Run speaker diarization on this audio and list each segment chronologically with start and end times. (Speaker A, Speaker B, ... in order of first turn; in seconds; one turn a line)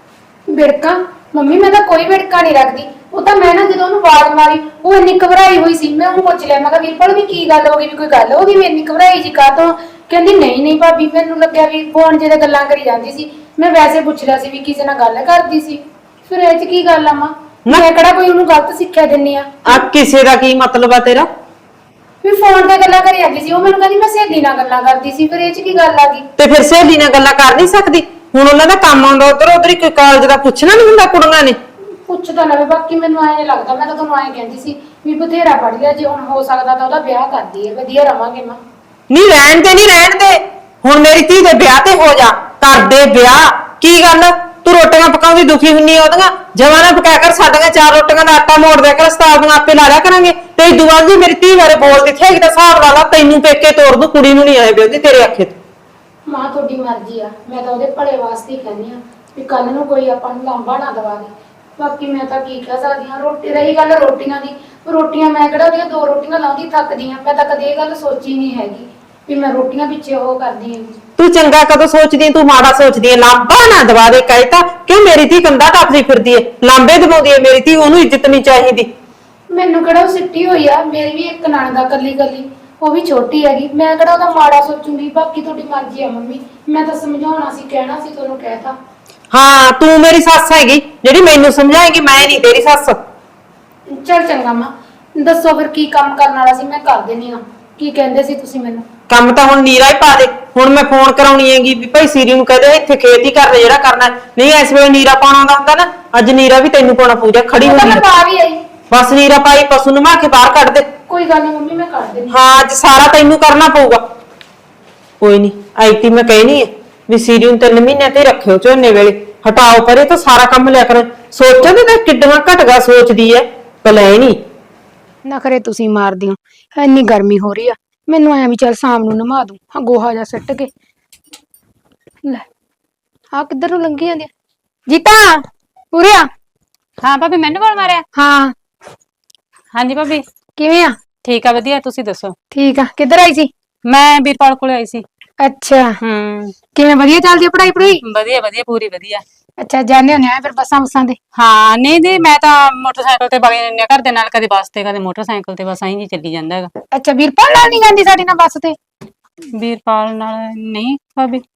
Speaker A: 0.5-19.8
Speaker B: 19.7-21.3
Speaker A: 22.2-26.2
Speaker B: 26.4-31.6
Speaker A: 32.1-38.6
Speaker B: 39.1-55.6
Speaker A: 56.3-71.0
Speaker B: 71.2-78.9
Speaker A: 79.5-88.8
Speaker B: 89.3-93.0
Speaker A: 93.9-98.8
Speaker B: 99.1-108.0
Speaker A: 107.6-108.6
Speaker B: 108.9-110.9
Speaker A: 111.1-112.4
Speaker B: 112.3-114.0
Speaker B: 115.2-124.4
Speaker A: 125.2-130.7
Speaker A: 133.3-134.3
Speaker A: 134.9-135.4
Speaker A: 135.9-136.3
Speaker C: 137.0-138.0
Speaker A: 138.2-138.5
Speaker C: 139.7-140.2
Speaker A: 140.6-140.9
Speaker C: 141.2-142.3
Speaker A: 142.5-143.5
Speaker C: 143.9-145.0
Speaker A: 145.4-146.0
Speaker C: 146.0-146.6
Speaker A: 146.7-148.0
Speaker C: 148.0-149.2
Speaker A: 149.6-151.2
Speaker C: 151.3-156.7
Speaker A: 156.9-158.8
Speaker C: 159.6-161.4